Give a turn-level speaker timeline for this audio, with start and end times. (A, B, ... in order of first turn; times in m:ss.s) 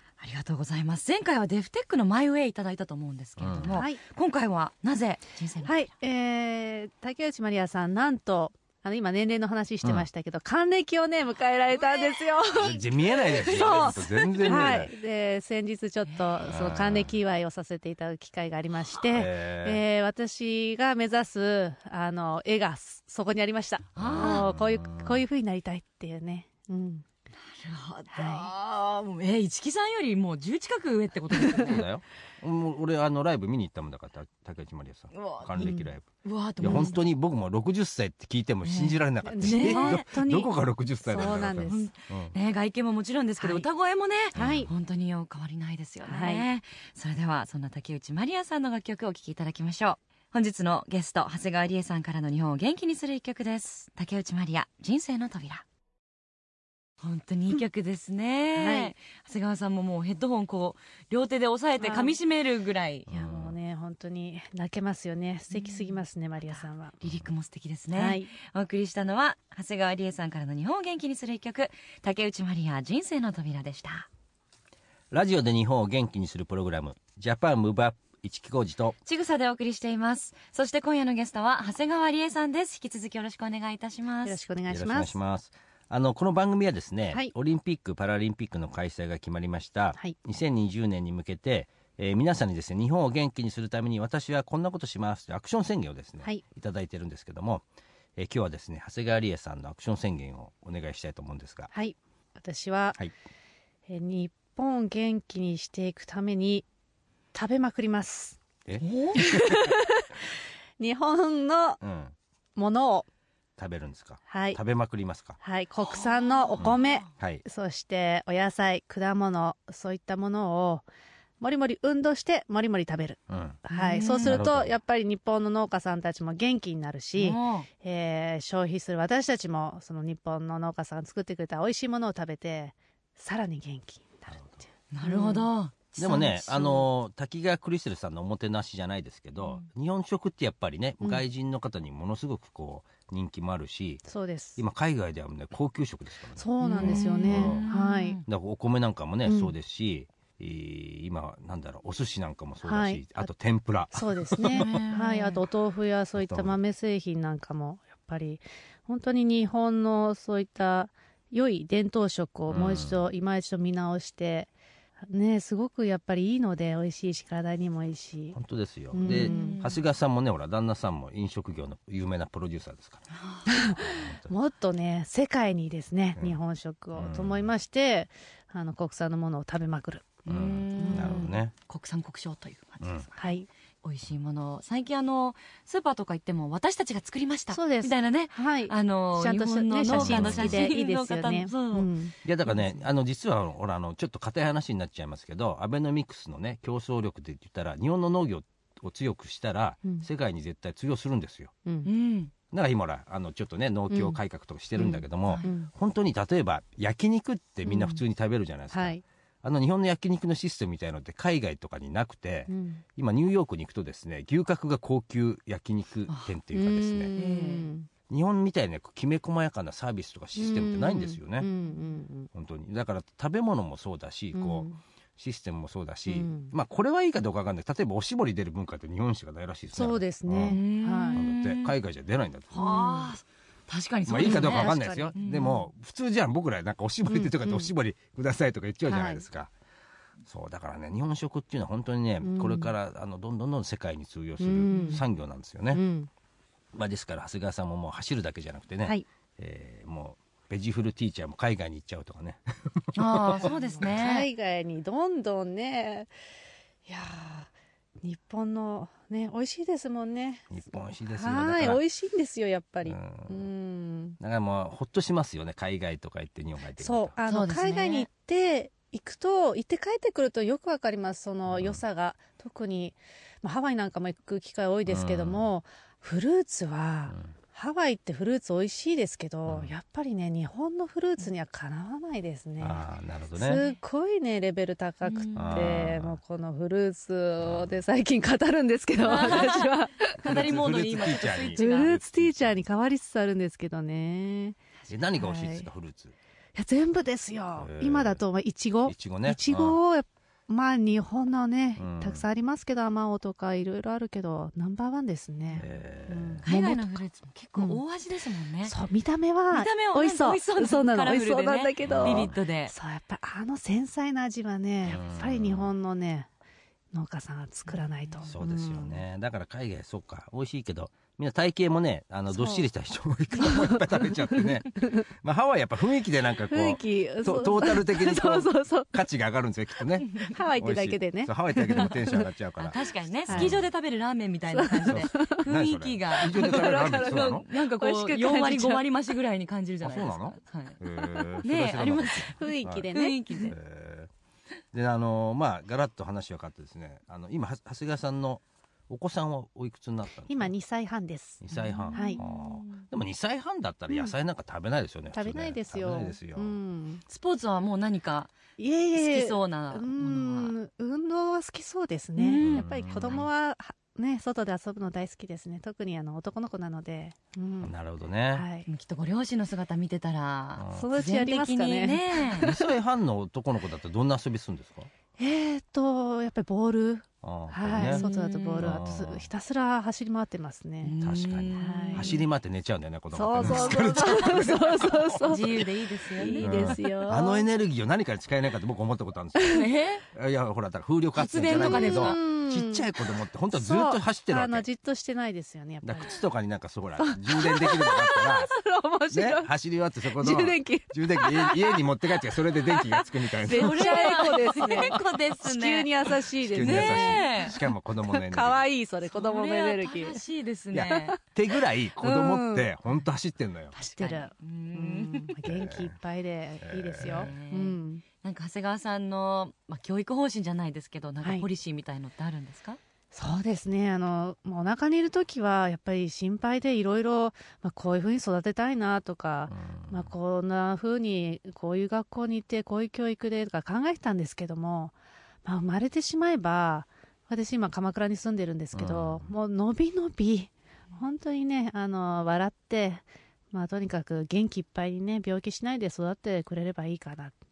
0:00.2-0:05.8 A
0:03.4-0:03.8 B
0:03.7-0:04.0 C
0:05.6-0:27.1 C
0:12.5-0:14.9 B
0:13.5-0:14.7 A
0:16.1-0:16.4 A
0:16.5-0:17.2 B
0:19.1-0:19.8 B
0:24.0-0:24.5 A
0:24.0-0:25.2 B
0:27.4-0:31.8 A
0:28.1-0:28.5 C
0:31.5-0:42.4 B
0:35.1-0:37.0 A
0:35.6-0:35.9 C
0:36.6-0:37.0 C
0:38.6-0:40.0 A
0:39.2-0:40.5 C
0:41.0-0:41.9 C
0:41.1-0:55.6 A
0:43.4-0:43.7 C
0:44.3-0:44.7 C
0:44.4-0:44.7 B
0:46.0-0:46.5 C
0:57.0-1:03.1 A
0:58.6-0:58.9 C
1:01.8-1:02.2 C
1:03.1-1:03.6 B
1:03.1-1:07.0 C
1:05.5-1:06.0 A
1:06.5-1:14.1 A
1:07.9-1:08.3 C
1:15.1-1:19.0 B
1:19.1-1:24.4 A
1:24.2-1:25.2 C
1:24.7-1:37.6 B
1:38.2-1:41.7 B
1:41.7-1:43.0 C
1:43.9-1:46.7 C
1:47.3-1:48.4 C
1:48.7-1:49.7 B
1:48.8-1:49.3 A
1:49.2-1:50.2 C
1:50.8-1:51.8 C
1:51.8-1:52.2 B
1:52.6-1:53.1 C
1:53.6-1:55.4 B
1:54.3-1:54.6 C
1:55.4-2:00.8 C
1:55.8-1:57.1 A
1:56.6-1:57.4 B
2:01.4-2:15.5 C
2:03.3-2:03.6 B
2:03.7-2:04.4 A
2:04.2-2:04.7 B
2:07.2-2:07.7 A
2:14.3-2:14.6 B
2:14.9-2:16.8 A
2:16.0-2:24.0 B
2:24.1-2:24.6 C
2:24.6-2:27.7 B
2:26.4-2:28.2 C
2:26.6-2:28.2 A
2:28.3-2:34.9 B
2:29.3-2:29.5 C
2:32.6-2:33.3 C
2:33.9-2:44.5 C
2:34.5-2:35.4 A
2:36.2-2:36.6 B
2:42.5-2:43.0 B
2:45.1-2:48.4 C
2:48.3-2:54.3 B
2:48.9-2:49.6 C
2:49.1-2:49.8 A
2:53.1-2:53.5 A
2:53.5-3:00.2 C
2:57.0-2:57.5 B
3:00.3-3:01.5 B
3:00.3-3:03.2 A
3:00.8-3:01.3 C
3:02.8-3:03.1 B
3:03.2-3:03.5 C
3:03.8-3:11.9 A
3:07.5-3:12.2 C
3:09.9-3:10.7 B
3:12.2-3:21.5 B
3:21.8-3:22.3 A
3:22.5-3:37.1 B
3:23.9-3:24.2 C
3:24.8-3:25.7 C
3:27.6-3:28.0 C
3:28.7-3:29.0 C
3:32.5-3:32.8 C
3:36.1-3:36.4 A
3:36.5-3:37.9 C
3:37.2-3:37.7 A
3:38.1-3:41.5 B
3:40.4-3:42.3 C
3:42.3-3:50.6 B
3:44.3-3:44.8 C
3:46.1-3:46.5 C
3:49.7-3:51.2 C
3:50.5-3:51.8 A
3:51.2-3:52.7 B
3:52.5-3:55.6 A
3:52.6-3:53.1 C
3:54.1-3:59.5 B
3:54.2-3:55.2 C
3:57.1-3:57.7 C
3:58.9-3:59.2 C
4:00.3-4:05.8 B
4:02.2-4:02.7 C
4:04.4-4:05.0 C
4:04.7-4:05.0 A
4:05.7-4:06.1 C
4:06.7-4:13.9 B
4:13.0-4:14.3 A
4:13.4-4:16.1 C
4:16.9-4:17.5 C
4:18.0-4:24.2 C
4:20.5-4:21.8 B
4:22.9-4:23.4 B
4:24.2-4:27.1 B
4:26.8-4:50.4 C
4:27.3-4:28.1 A
4:31.5-4:31.8 B
4:34.9-4:35.5 B
4:39.5-4:39.7 B
4:42.6-4:43.6 B
4:45.0-4:45.7 A
4:45.4-4:46.2 B
4:47.4-4:47.8 B
4:49.0-4:52.0 A
4:50.2-4:52.6 B
4:51.6-4:54.6 C
4:54.9-4:56.2 B
4:55.2-4:55.7 C
4:56.6-5:07.0 C
4:57.6-4:58.2 B
4:58.9-4:59.8 B
5:01.8-5:02.2 B
5:05.6-5:06.4 B
5:06.4-5:08.8 A
5:07.6-5:07.8 C
5:08.7-5:16.3 C
5:09.5-5:12.7 A
5:11.8-5:12.4 B
5:14.8-5:15.7 B
5:16.9-5:19.0 C
5:17.7-5:18.2 A
5:18.3-5:33.7 B
5:22.3-5:22.7 C
5:23.4-5:25.0 C
5:26.5-5:28.9 C
5:30.2-5:32.3 C
5:32.6-5:40.8 A
5:33.3-5:33.6 C
5:34.5-5:35.5 C
5:34.9-5:37.4 B
5:36.2-5:38.9 C
5:39.8-5:42.9 B
5:41.0-5:41.3 C
5:41.4-5:43.6 A
5:42.4-5:43.6 C
5:43.5-5:44.1 B
5:44.7-5:50.5 B
5:50.3-5:52.2 C
5:51.4-5:56.6 B
5:51.5-5:52.8 A
5:53.9-5:54.2 C
5:55.1-5:57.0 C
5:57.1-5:58.3 A
5:58.6-6:07.7 C
5:59.0-6:00.5 A
6:02.2-6:03.3 A
6:02.4-6:03.2 B
6:07.6-6:08.5 B
6:08.3-6:08.7 C
6:08.7-6:12.5 A
6:10.6-6:10.9 B
6:10.7-6:12.7 C
6:12.4-6:14.9 B
6:15.2-6:20.9 C
6:17.2-6:18.0 B
6:17.8-6:18.7 A
6:18.6-6:19.3 B
6:20.8-6:22.2 A
6:21.0-6:25.6 B
6:21.6-6:22.2 C
6:23.1-6:27.5 C
6:23.4-6:24.5 A
6:25.2-6:26.9 A
6:26.4-6:34.6 B
6:29.4-6:29.7 C
6:29.5-6:30.0 A
6:31.2-6:32.2 A
6:31.5-6:32.9 C
6:33.5-6:36.2 C
6:35.8-6:38.5 B
6:37.0-6:39.5 C
6:39.1-6:45.0 B
6:40.2-6:50.2 C
6:43.5-6:47.6 A
6:46.4-6:48.7 B
6:49.1-6:51.2 A
6:50.7-6:53.7 B
6:50.9-6:51.2 C
6:52.0-6:52.7 C
6:53.8-6:58.0 C
6:54.0-6:55.3 A
6:55.4-6:56.0 B
6:56.6-6:57.4 B
6:57.0-7:02.8 A
7:03.1-7:27.3 C
7:09.5-7:10.1 B
7:18.7-7:19.3 B